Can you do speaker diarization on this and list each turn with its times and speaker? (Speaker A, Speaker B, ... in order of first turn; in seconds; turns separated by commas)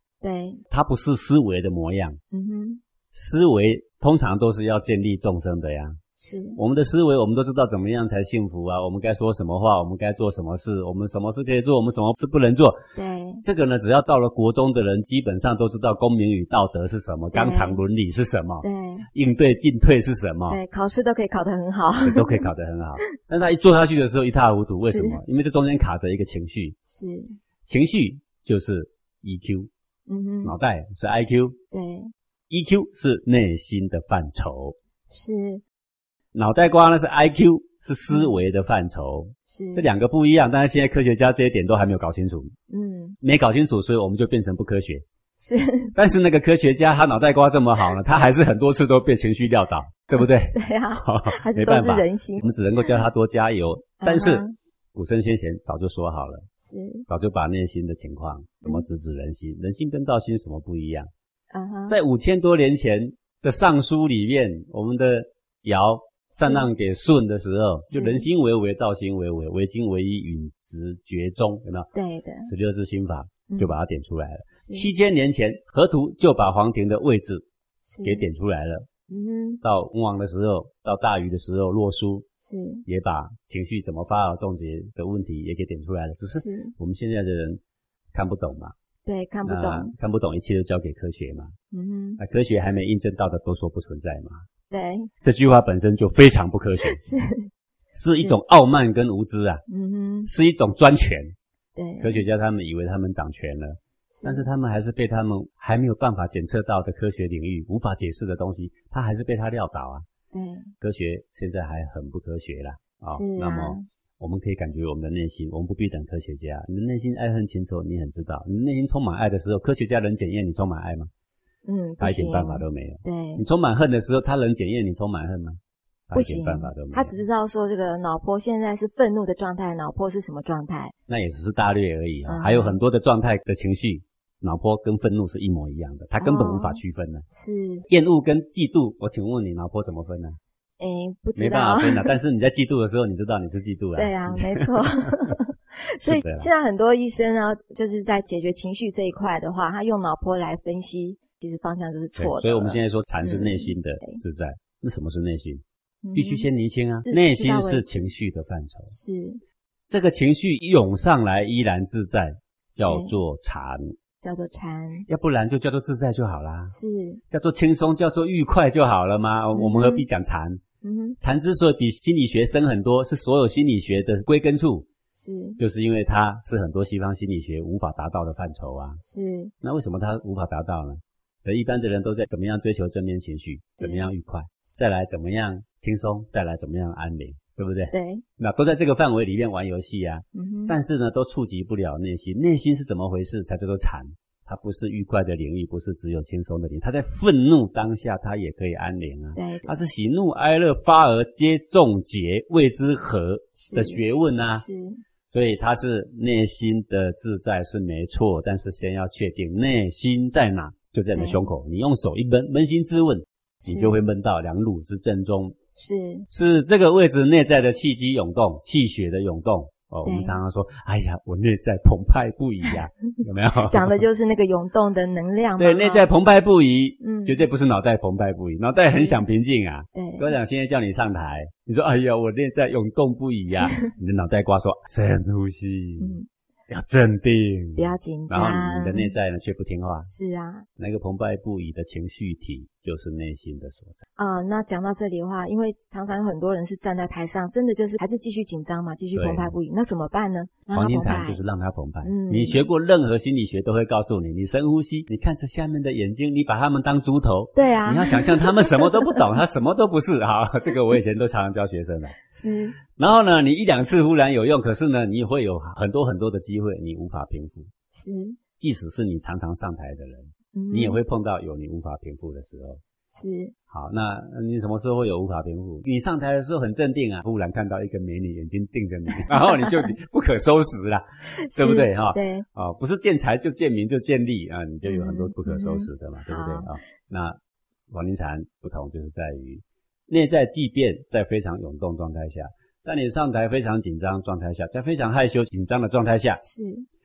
Speaker A: 0.2-0.6, Speaker B: 0.7-2.2, Speaker A: 2.3-2.8, Speaker B: 3.1-6.0, Speaker A: 6.2-6.6, Speaker B: 6.6-12.8, Speaker A: 12.9-13.4, Speaker B: 13.4-20.6, Speaker A: 17.3-17.8, Speaker A: 18.6-19.1, Speaker A: 20.5-22.5, Speaker B: 22.0-26.8, Speaker A: 24.9-25.2, Speaker A: 26.9-27.4, Speaker B: 27.7-29.7, Speaker A: 30.1-30.6, Speaker B: 30.4-31.6, Speaker A: 31.7-32.1, Speaker B: 32.5-34.8, Speaker A: 35.1-35.6, Speaker B: 36.3-42.5, Speaker A: 39.5-39.9, Speaker A: 42.7-43.2, Speaker B: 43.2-45.0, Speaker A: 45.4-45.9, Speaker B: 46.0-56.5, Speaker A: 50.2-53.0, Speaker A: 54.0-54.5, Speaker A: 56.6-57.1, Speaker B: 57.1-61.1, Speaker A: 61.5-62.0, Speaker B: 61.9-71.9, Speaker A: 66.3-66.7, Speaker A: 67.9-68.2, Speaker A: 71.9-72.5, Speaker B: 72.4-77.5, Speaker A: 73.5-73.8, Speaker A: 74.6-74.9, Speaker A: 77.9-78.3, Speaker B: 78.0-78.9, Speaker A: 79.1-79.6, Speaker B: 79.6-82.3, Speaker A: 82.4-82.8, Speaker B: 82.9-87.6, Speaker A: 86.4-86.7, Speaker B: 88.1-88.7, Speaker A: 89.0-89.9, Speaker B: 89.4-91.5, Speaker A: 91.7-92.2, Speaker B: 92.2-94.4, Speaker A: 94.7-95.1, Speaker B: 95.2-97.0, Speaker A: 96.9-97.5, Speaker B: 97.9-99.6, Speaker A: 99.7-100.3, Speaker B: 100.3-101.3, Speaker A: 101.8-102.2, Speaker B: 102.0-110.1, Speaker A: 104.1-104.5, Speaker A: 110.3-110.7, Speaker B: 110.8-121.1, Speaker A: 113.1-113.8, Speaker A: 121.7-123.4, Speaker B: 122.0-127.2, Speaker A: 126.1-130.9, Speaker B: 131.1-137.3, Speaker A: 132.3-132.8, Speaker A: 136.2-137.9, Speaker B: 137.9-140.4, Speaker A: 140.8-142.2, Speaker B: 141.4-145.3, Speaker A: 144.0-154.2, Speaker B: 146.0-146.5, Speaker B: 152.2-155.6, Speaker A: 156.0-156.5, Speaker B: 156.1-158.9, Speaker A: 157.1-157.8, Speaker A: 158.9-159.4, Speaker B: 159.9-163.9, Speaker A: 162.9-163.1, Speaker A: 164.2-165.1, Speaker B: 165.1-166.7, Speaker A: 166.7-167.2, Speaker B: 167.3-170.6, Speaker A: 169.5-170.1, Speaker A: 170.8-171.2, Speaker B: 171.2-174.9, Speaker A: 175.1-175.6, Speaker B: 175.6-179.0, Speaker A: 179.0-179.5, Speaker B: 179.6-204.6, Speaker A: 183.8-184.1, Speaker A: 187.9-188.2, Speaker A: 190.3-190.8, Speaker A: 199.3-199.8, Speaker A: 203.6-205.0, Speaker B: 205.3-215.6, Speaker A: 211.2-211.5, Speaker A: 213.6-214.0, Speaker A: 215.8-216.3, Speaker B: 216.3-224.0, Speaker A: 220.0-220.4, Speaker A: 223.7-226.1, Speaker B: 225.6-236.2, Speaker A: 227.0-227.5, Speaker A: 228.9-229.2, Speaker A: 229.9-230.3, Speaker A: 233.5-233.9, Speaker A: 236.0-236.3, Speaker B: 236.7-240.1, Speaker A: 237.8-239.1, Speaker A: 240.1-240.7, Speaker B: 240.8-244.0, Speaker A: 244.2-251.4, Speaker B: 249.2-249.5, Speaker B: 250.7-262.2, Speaker A: 252.0-252.7, Speaker A: 257.6-259.0, Speaker A: 262.3-262.8, Speaker B: 263.0-267.7, Speaker A: 267.9-268.4, Speaker B: 268.6-272.8, Speaker A: 270.5-271.0, Speaker A: 273.1-273.5, Speaker B: 273.7-287.4, Speaker A: 279.3-279.7, Speaker A: 281.3-282.5, Speaker A: 284.9-286.7, Speaker B: 287.9-296.4, Speaker A: 296.4-296.9